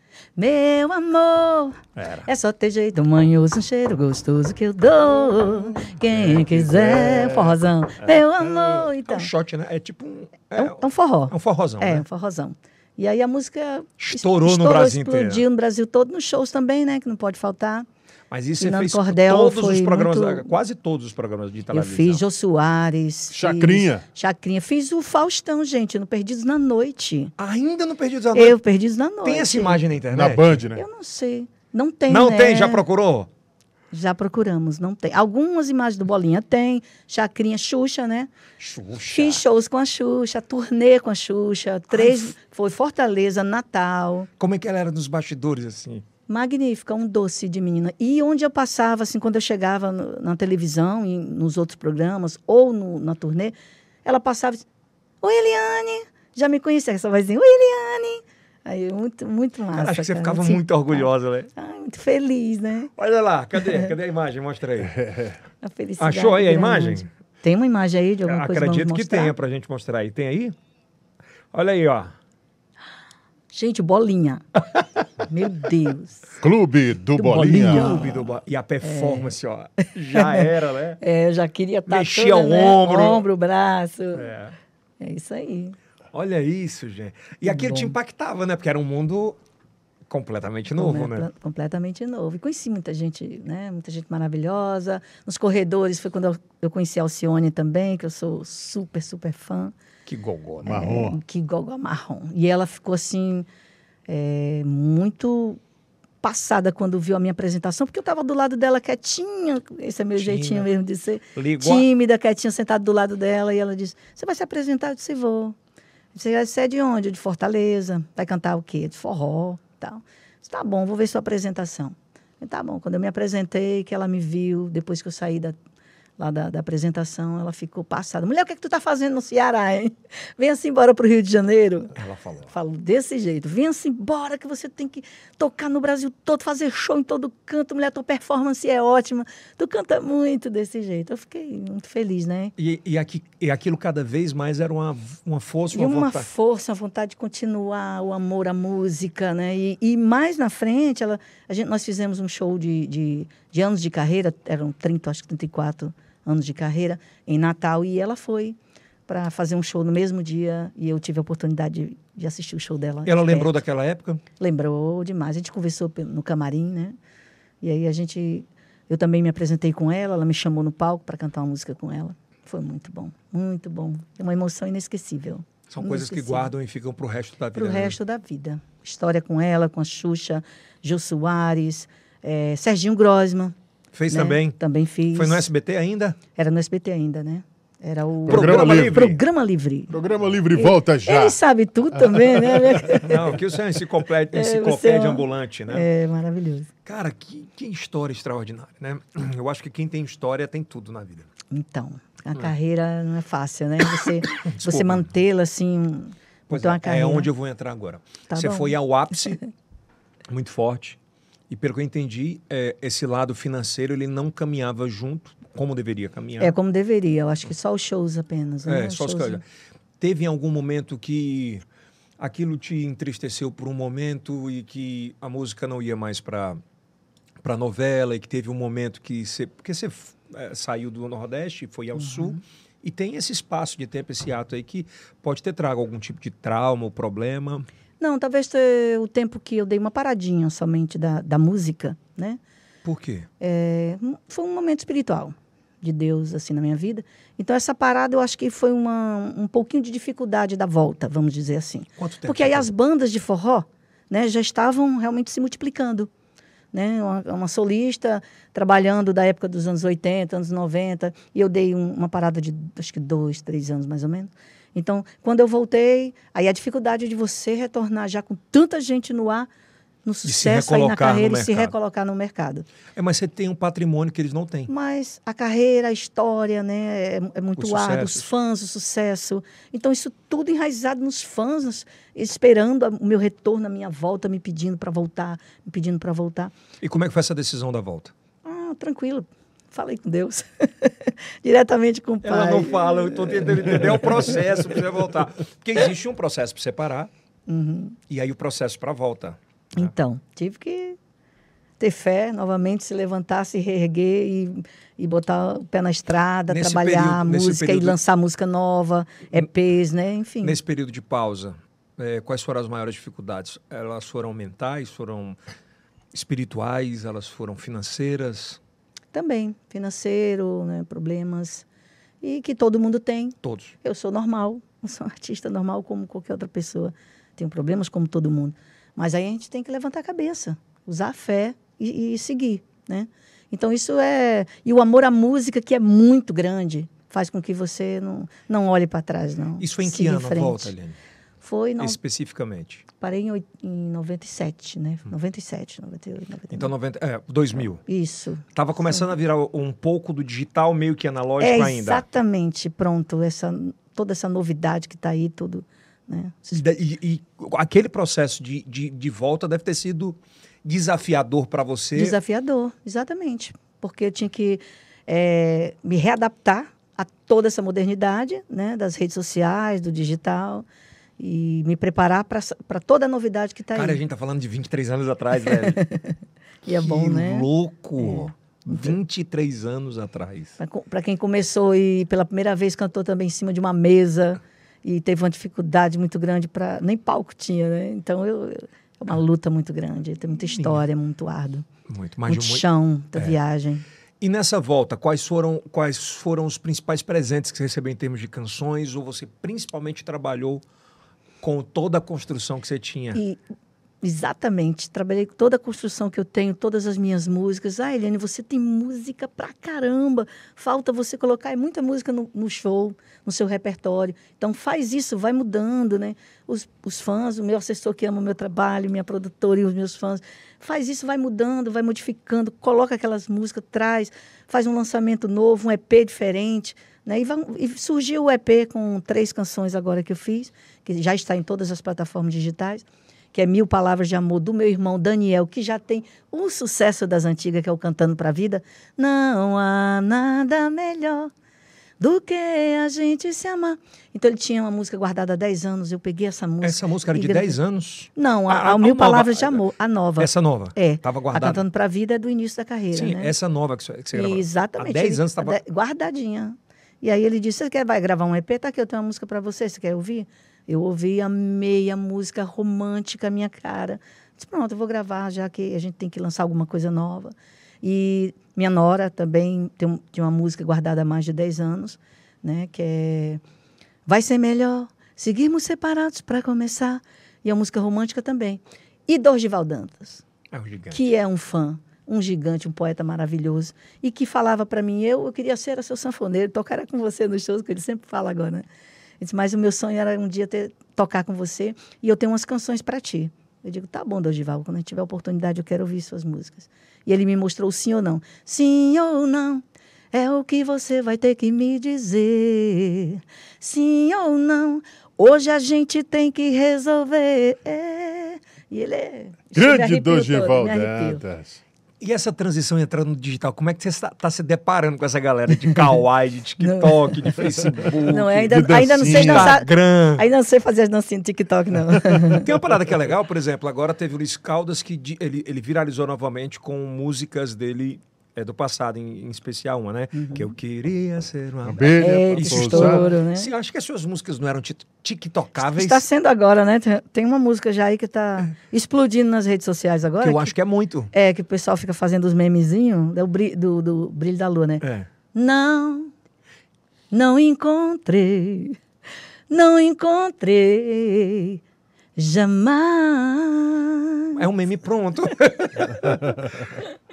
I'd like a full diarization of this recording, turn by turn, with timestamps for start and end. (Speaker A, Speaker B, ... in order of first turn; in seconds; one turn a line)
Speaker A: 0.4-9.3
Speaker B: 1.9-2.3
Speaker B: 6.2-7.5
Speaker B: 8.7-12.0
Speaker A: 10.6-17.9
Speaker B: 14.0-15.4
Speaker B: 18.3-22.2
Speaker A: 18.6-20.5
Speaker A: 21.7-27.3
Speaker C: 23.3-24.0
Speaker B: 27.4-28.6
Speaker A: 28.3-29.8
Speaker B: 29.2-30.6
Speaker C: 30.1-30.8
Speaker A: 30.7-32.8
Speaker B: 32.1-33.3
Speaker A: 33.9-38.3
Speaker B: 38.6-39.4
Speaker A: 39.1-44.3
Speaker B: 41.9-42.3
Speaker B: 44.4-46.0
Speaker A: 46.3-53.5
Speaker A: 54.0-54.6
Speaker A: 55.2-62.9
Speaker B: 59.7-61.5
Speaker B: 63.0-65.0
Speaker A: 63.6-63.9
Speaker A: 65.6-69.3
Speaker B: 66.0-67.1
Speaker B: 68.2-70.5
Speaker B: 71.5-72.1
Speaker A: 73.5-74.6
Speaker A: 75.2-76.4
Speaker C: 76.4-78.0
Speaker A: 77.2-78.3
Speaker B: 77.3-81.0
Speaker A: 78.8-79.3
Speaker A: 80.1-84.3
Speaker B: 81.9-83.2
Speaker B: 84.1-84.5
Speaker A: 85.0-85.7
Speaker B: 86.1-89.4
Speaker A: 87.5-87.9
Speaker B: 90.1-91.3
Speaker A: 90.7-99.7
Speaker B: 100.0-100.9
Speaker C: 100.6-101.2
Speaker A: 100.7-103.5
Speaker A: 104.1-105.6
Speaker A: 106.2-115.5
Speaker B: 110.2-110.7
Speaker B: 111.3-111.9
Speaker A: 116.1-125.5
Speaker A: 126.2-131.9
Speaker B: 131.9-132.5
Speaker A: 132.5-142.5
Speaker B: 142.6-146.3
Speaker A: 145.7-158.6
Speaker A: 159.1-163.6
Speaker B: 163.0-164.2
Speaker A: 164.4-166.9
Speaker A: 167.6-176.5
Speaker B: 175.7-178.0
Speaker A: 177.5-183.5
Speaker B: 183.9-184.6
Speaker A: 184.1-185.5
Speaker B: 185.1-186.2
Speaker A: 186.3-190.0
Speaker C: 188.3-189.1
Speaker B: 188.3-189.2
Speaker C: 189.9-191.4
Speaker A: 190.5-193.4
Speaker C: 192.1-192.9
Speaker B: 192.9-195.8
Speaker A: 194.3-196.7
Speaker B: 196.8-201.3
Speaker A: 201.5-207.3
Speaker B: 204.3-205.1
Speaker B: 206.5-209.4
Speaker A: 208.3-209.4
Speaker B: 210.3-211.0
Speaker B: 211.5-216.5
Speaker A: 216.4-219.4
Speaker B: 218.6-219.4
Speaker B: 220.0-221.6
Speaker B: 222.2-226.6
Speaker B: 227.4-237.7
Speaker A: 232.0-232.3
Speaker A: 238.0-242.4
Speaker B: 242.8-243.3
Speaker A: 243.4-256.1
Speaker B: 252.0-252.7
Speaker A: 256.7-269.5
Speaker A: 270.0-272.6
Speaker B: 270.2-271.7
Speaker B: 272.9-274.7
Speaker A: 274.7-286.5
Speaker B: 277.6-278.3
Speaker B: 286.8-288.1
Speaker A: 288.4-294.3
Speaker B: 292.2-297.1
Speaker A: 297.5-298.0
Speaker B: 298.1-299.9
Speaker A: 299.8-301.0
Speaker A: 301.8-310.6
Speaker B: 306.5-308.0
Speaker B: 310.4-315.4
Speaker B: 316.1-318.6
Speaker A: 319.1-321.6
Speaker A: 322.2-340.7
Speaker B: 323.4-323.7
Speaker B: 339.6-341.0
Speaker A: 341.4-342.0
Speaker B: 341.8-342.8
Speaker A: 343.0-346.7
Speaker B: 346.5-347.8
Speaker A: 347.8-349.0
Speaker B: 348.5-352.0
Speaker A: 351.4-356.6
Speaker B: 356.5-362.1
Speaker A: 361.9-370.6
Speaker A: 371.2-374.0
Speaker B: 373.7-375.8
Speaker A: 375.4-378.9
Speaker B: 376.7-380.6
Speaker A: 380.6-391.6
Speaker B: 390.4-390.8
Speaker B: 391.9-392.6
Speaker A: 392.3-393.8
Speaker B: 394.2-400.6
Speaker B: 401.4-403.2
Speaker A: 404.0-441.3
Speaker A: 442.0-447.6
Speaker B: 446.6-449.6
Speaker A: 448.1-453.3
Speaker B: 450.2-451.6
Speaker B: 452.9-455.6
Speaker A: 454.1-473.4
Speaker A: 474.1-480.2
Speaker B: 480.5-481.1
Speaker A: 480.9-488.6
Speaker A: 489.2-511.2
Speaker C: 509.5-511.6
Speaker B: 512.0-520.2
Speaker A: 516.6-522.5
Speaker C: 518.5-519.6
Speaker B: 522.2-536.0
Speaker A: 530.1-530.5
Speaker C: 531.6-533.1
Speaker A: 532.0-533.5
Speaker A: 535.6-540.5
Speaker B: 540.2-541.1
Speaker A: 541.1-544.8
Speaker B: 544.8-545.1
Speaker A: 545.3-546.1
Speaker A: 547.1-548.8
Speaker A: 549.5-551.6
Speaker A: 552.1-554.4
Speaker B: 554.4-556.7